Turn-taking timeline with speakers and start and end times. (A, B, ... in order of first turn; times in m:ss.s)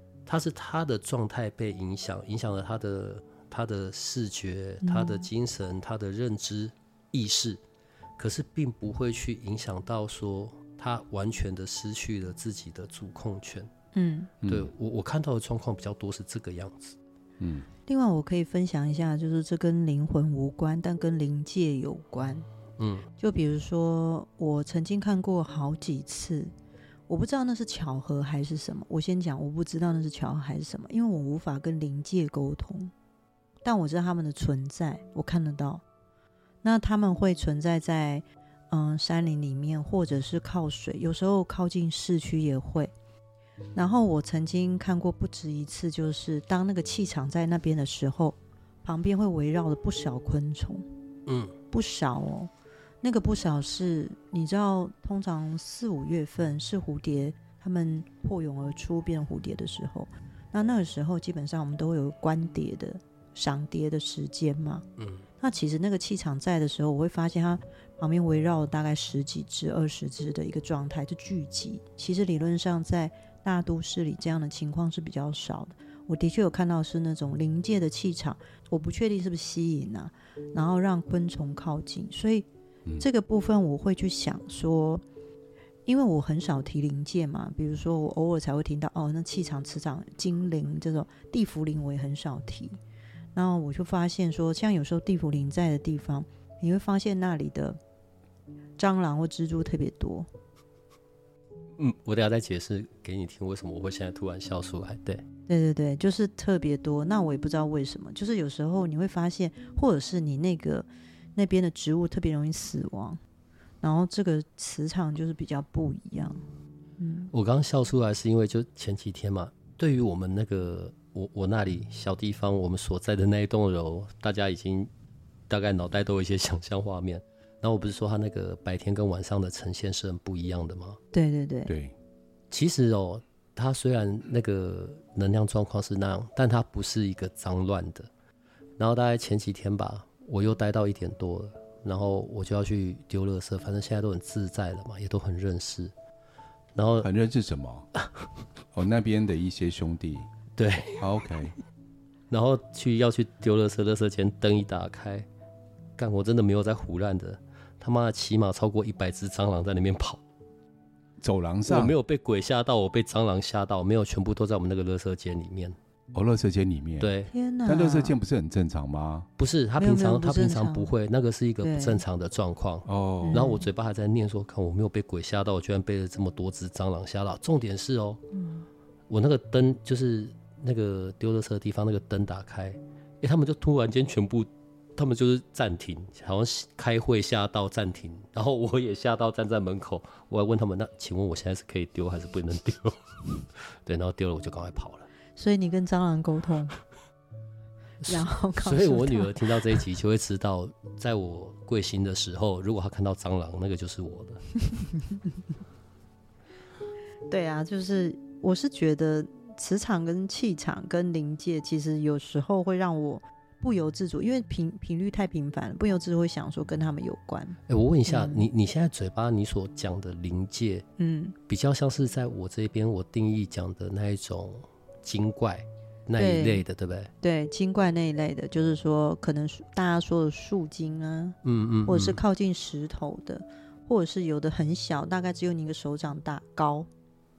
0:00.3-0:07.6 A
0:04.8-0:05.2 B
0:08.2-0:13.7 A
0:13.9-0:14.3 B
0:14.4-0:14.7 C
0:14.5-0:17.0 A
0:17.4-0:17.7 C
0:17.9-0:22.5 B
0:22.8-0:23.1 A
0:23.2-0:26.5 B
0:27.1-0:32.9 B
0:33.6-0:35.8 B
0:36.6-0:42.9 B
0:43.8-0:50.9 B
0:51.3-0:51.5 A
0:51.7-0:52.5 B
0:53.0-1:04.8 B
1:05.0-1:05.2 A
1:05.4-1:22.5 B
1:23.0-1:25.0 B
1:25.9-1:32.8 B
1:33.4-1:37.8 B
1:38.8-1:40.3 B
1:41.8-1:45.2 A
1:45.5-1:53.2 B
1:53.8-1:56.4 B
1:57.0-1:57.3 B
1:57.3-2:04.9 A
2:05.5-2:11.0 A
2:11.1-2:11.7 B
2:11.7-2:12.0 C
2:12.5-2:18.1 A
2:18.8-2:25.9 A
2:26.8-2:27.1 A
2:27.0-2:27.9 C
2:28.7-2:30.3 C
2:30.6-2:31.5 A
2:31.0-2:31.6 C
2:32.3-2:35.3 A
2:36.0-2:40.2 A
2:41.2-2:42.0 C
2:41.7-2:45.8 A
2:46.1-2:47.1 C
2:47.0-2:47.3 A
2:47.3-2:48.2 B
2:47.7-2:49.3 C
2:49.4-2:58.2 A
2:49.8-2:50.9 B
2:51.6-2:52.0 B
2:52.9-2:53.4 C
2:53.2-2:53.7 B
2:58.3-2:58.7 B
2:59.1-3:15.1 A
3:15.4-3:16.8 B
3:18.0-3:24.5 A
3:18.1-3:19.5 B
3:27.3-3:38.5 B
3:37.7-3:40.9 A
3:41.0-3:41.4 B
3:41.5-3:47.1 A
3:46.2-3:46.6 B
3:47.2-3:51.4 B
3:51.4-3:52.2 A
3:51.9-3:56.9 B